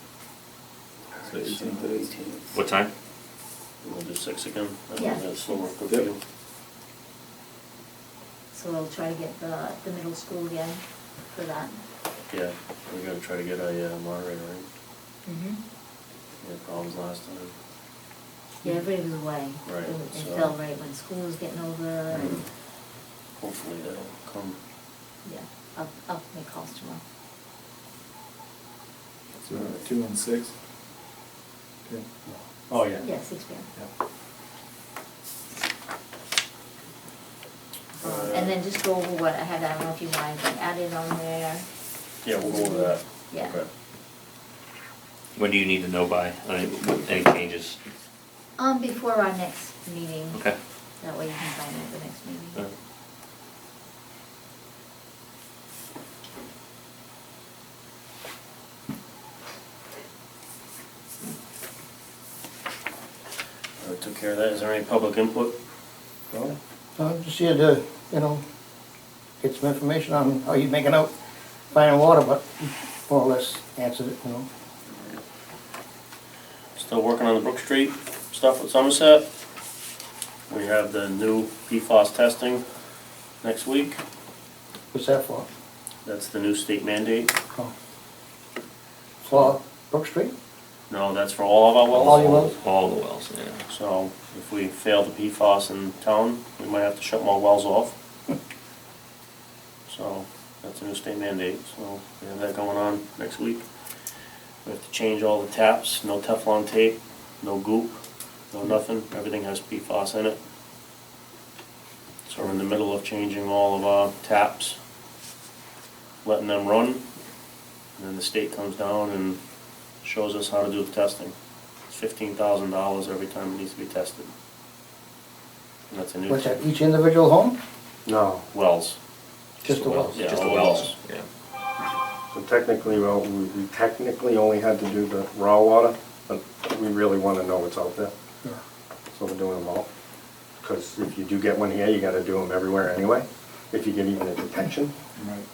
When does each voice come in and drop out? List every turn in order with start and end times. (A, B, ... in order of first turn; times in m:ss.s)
0:01.2-0:02.4 A
0:02.5-0:02.9 B
0:03.8-0:06.2 C
0:04.9-0:05.7 D
0:08.5-0:11.8 D
0:12.3-0:14.6 C
0:15.2-0:15.6 D
0:16.4-0:17.5 C
0:18.6-0:22.3 D
0:19.6-0:20.6 C
0:22.1-0:22.4 C
0:23.4-0:24.6 C
0:25.2-0:27.0 D
0:29.4-0:30.5 A
0:32.7-0:33.0 E
0:33.0-0:33.7 D
0:38.0-0:38.6 C
0:38.1-0:41.6 D
0:42.2-0:43.7 C
0:42.4-0:43.6 D
0:45.3-0:47.8 B
0:48.6-0:50.4 D
0:51.0-0:52.7 D
1:03.8-1:05.6 C
1:06.3-1:06.6 E
1:07.0-1:08.4 F
1:09.4-1:11.1 F
1:11.7-1:14.5 F
1:16.8-1:19.2 C
1:20.5-1:22.6 C
1:23.4-1:24.0 C
1:24.9-1:25.5 F
1:26.0-1:27.3 C
1:29.2-1:30.3 F
1:30.9-1:32.5 C
1:31.9-1:33.6 B
1:32.0-1:32.5 F
1:33.7-1:37.9 C
1:39.9-1:43.6 C
1:44.6-1:48.0 C
1:48.5-1:50.4 C
1:52.2-1:54.8 C
1:56.2-1:57.0 C
1:58.0-1:59.4 C
2:00.0-2:01.3 C
2:01.9-2:04.3 C
2:05.9-2:06.6 C
2:06.3-2:07.6 F
2:08.0-2:08.4 E
2:08.5-2:09.0 C
2:09.6-2:10.2 F
2:09.7-2:11.2 B
2:10.1-2:10.9 C
2:12.3-2:18.1 E
2:19.1-2:19.9 E
2:20.6-2:24.9 E
2:25.2-2:25.4 A